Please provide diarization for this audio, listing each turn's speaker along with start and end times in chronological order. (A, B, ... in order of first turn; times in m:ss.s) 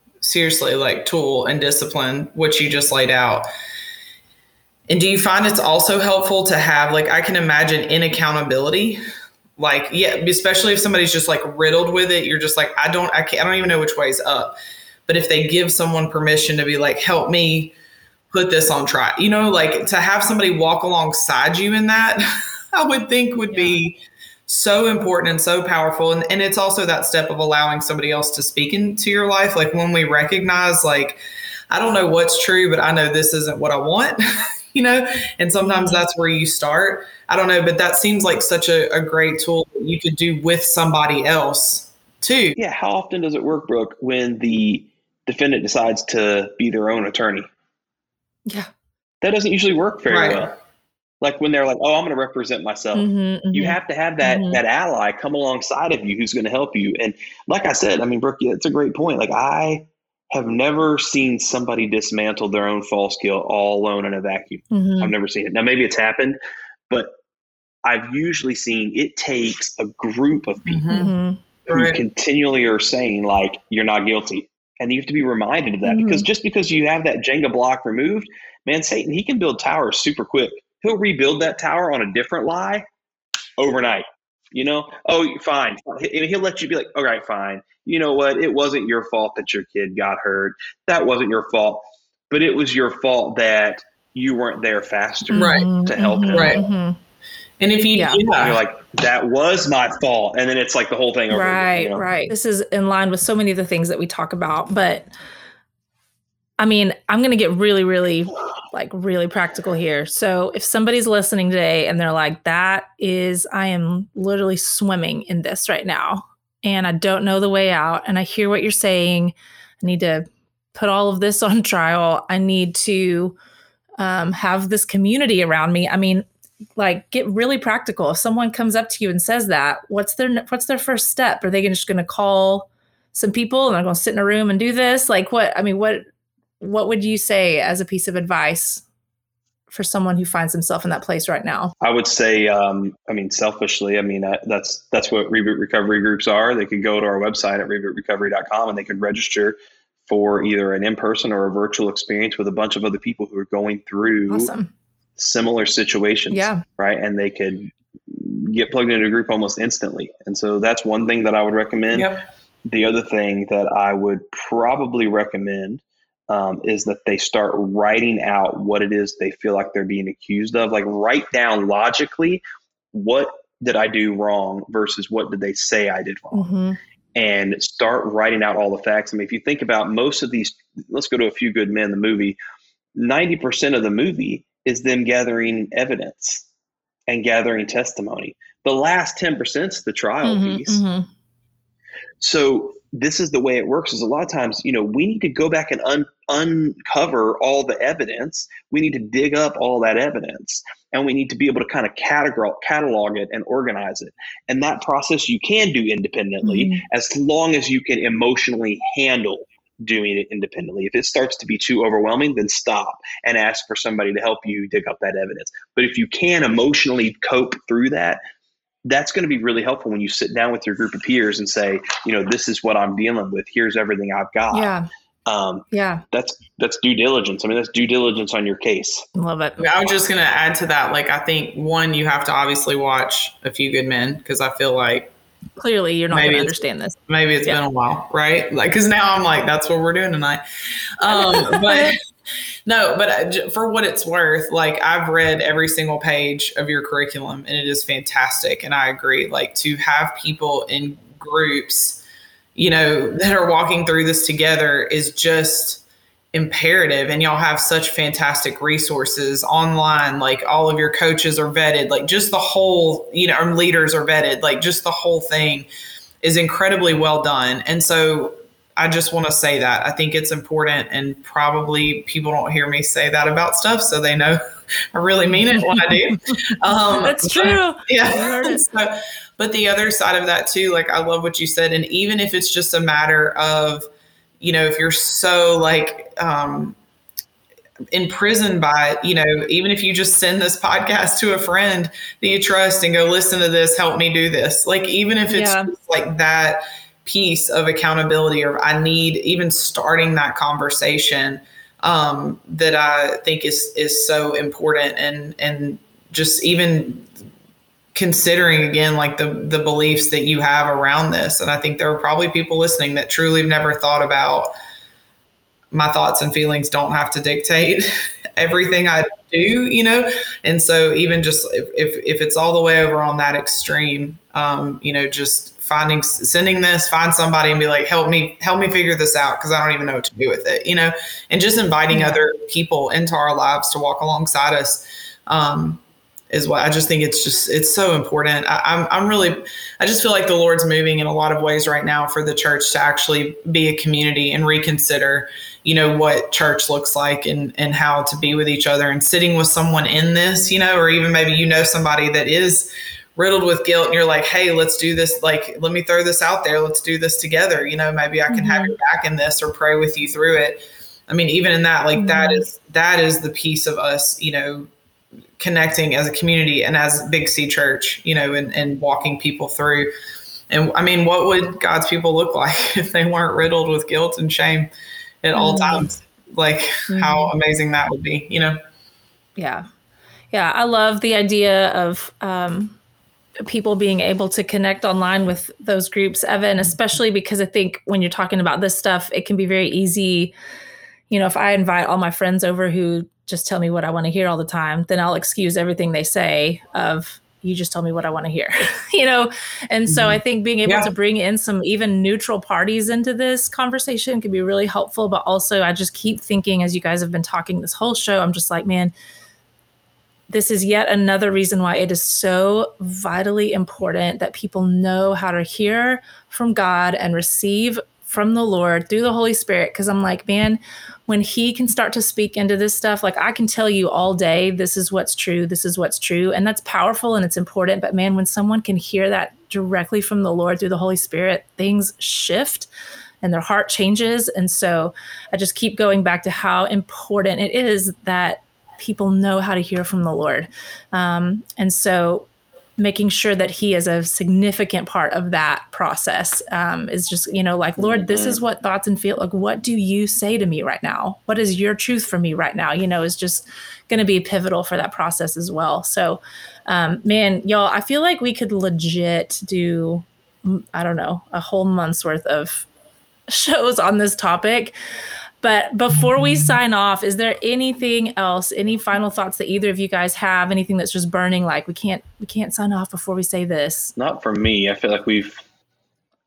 0:00.2-0:03.5 A
0:04.9-0:09.0 A
0:09.6-0:14.6 A
0:15.1-0:17.7 A
0:18.3-0:31.2 A
0:23.5-0:23.8 B
0:31.7-0:34.2 A
0:34.7-0:42.6 A
0:35.6-0:36.0 B
0:42.6-0:47.5 C
0:49.2-0:50.6 C
0:50.1-0:50.5 A
0:51.2-1:06.4 C
0:53.0-0:54.6 B
1:04.7-1:05.1 B
1:07.8-1:11.1 C
1:10.7-1:11.1 A
1:10.9-1:11.4 B
1:11.7-1:12.0 A
1:11.7-1:22.8 C
1:15.8-1:16.3 B
1:23.6-1:36.6 C
1:35.3-1:37.0 B
1:35.4-1:35.7 A
1:36.3-1:36.6 A
1:37.6-1:38.6 A
1:37.9-1:38.2 B
1:38.4-1:42.1 C
1:41.3-1:45.1 B
1:46.6-2:03.4 B
2:04.0-2:06.2 B
2:06.8-2:16.0 B
2:16.6-2:18.8 B
2:19.7-2:21.7 B
2:21.8-2:29.6 C
2:30.1-2:34.5 C
2:34.3-2:34.7 B
2:35.2-2:42.1 C
2:36.3-2:36.6 B
2:41.9-2:42.2 A
2:42.6-2:52.4 C
2:52.9-2:56.5 C
2:56.3-2:56.8 B
2:57.2-3:02.4 C
3:03.0-3:06.4 C
3:07.1-3:10.8 C
3:10.2-3:11.1 B
3:12.2-3:38.2 C
3:26.4-3:26.8 B
3:38.8-3:44.7 C
3:44.5-3:44.9 B
3:45.3-3:49.1 C
3:45.7-3:46.0 B
3:49.2-3:49.6 B
3:49.6-3:55.1 A
3:55.6-3:57.6 B
3:56.1-4:00.4 A
4:01.0-4:02.0 A
4:01.1-4:01.9 B
4:02.7-4:12.0 A
4:12.6-4:25.7 A
4:26.2-4:34.4 A
4:34.9-4:43.9 A
4:37.0-4:38.7 B
4:44.4-4:46.8 A
4:47.9-5:07.1 A
4:55.3-4:55.7 B
5:07.9-5:14.5 A
5:15.7-6:04.7 A
5:31.9-5:32.2 B
5:58.3-5:58.8 B
6:02.0-6:02.4 B
6:05.4-6:09.9 A
6:10.5-6:14.7 A
6:15.2-6:18.6 A
6:15.4-6:15.9 B
6:16.9-6:17.3 B
6:19.4-6:19.6 B
6:20.3-6:22.8 B
6:23.4-6:30.3 B
6:31.1-6:48.9 B
6:39.9-6:40.9 A
6:50.3-7:12.7 B
7:13.2-7:42.7 B
7:27.8-7:28.4 C
7:43.3-7:44.8 B
7:45.4-7:53.9 B
7:54.0-7:55.4 C